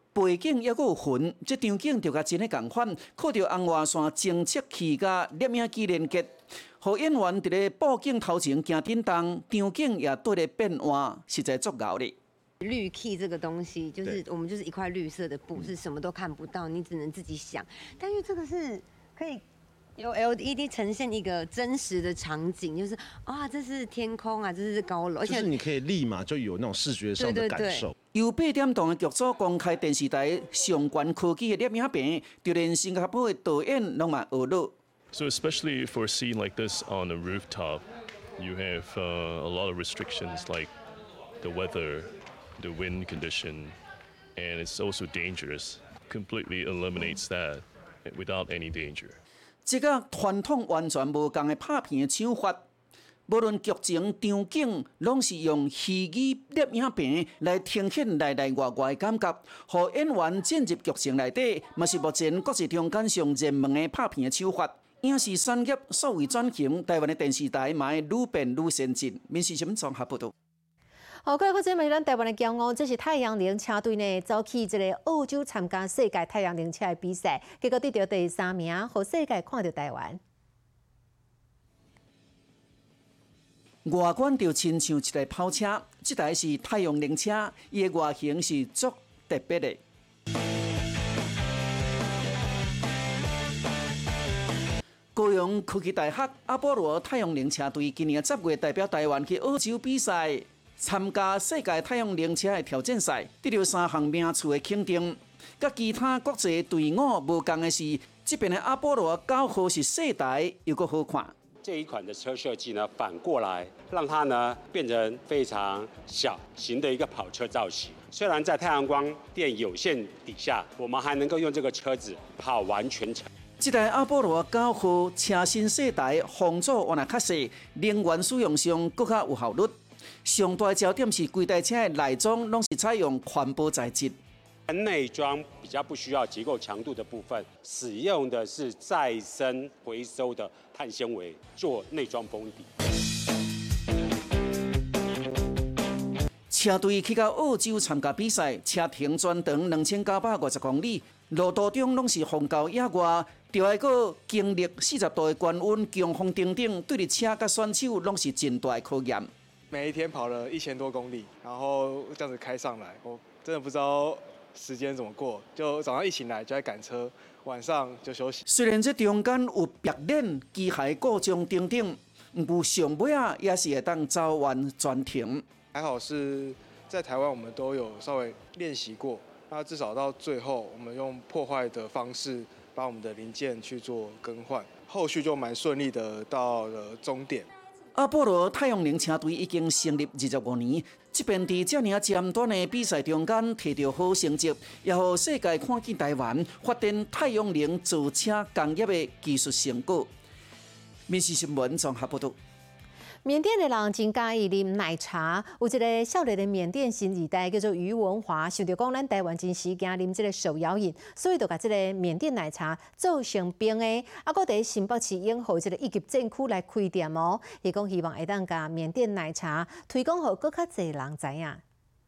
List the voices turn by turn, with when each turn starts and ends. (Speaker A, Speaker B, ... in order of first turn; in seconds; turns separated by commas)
Speaker A: 0.1-12.2, Speaker B: 12.6-19.4, Speaker B: 20.0-25.5, Speaker C: 25.2-27.9, Speaker B: 27.2-27.8, Speaker A: 28.1-34.7, Speaker D: 35.1-37.9, Speaker D: 38.4-40.7, Speaker D: 41.4-43.8, Speaker D: 44.4-49.2, Speaker A: 49.7-52.6, Speaker A: 53.3-70.3, Speaker E: 71.2-80.2, Speaker A: 83.8-89.8, Speaker A: 95.2-111.3, Speaker F: 111.6-123.3, Speaker A: 123.6-129.7, Speaker A: 130.2-134.2, Speaker F: 134.7-142.7, Speaker A: 146.5-159.3, Speaker G: 159.7-168.4, Speaker A: 168.5-175.4, Speaker G: 175.7-187.5, Speaker A: 188.0-200.1, Speaker A: 201.1-202.4, Speaker E: 203.2-221.6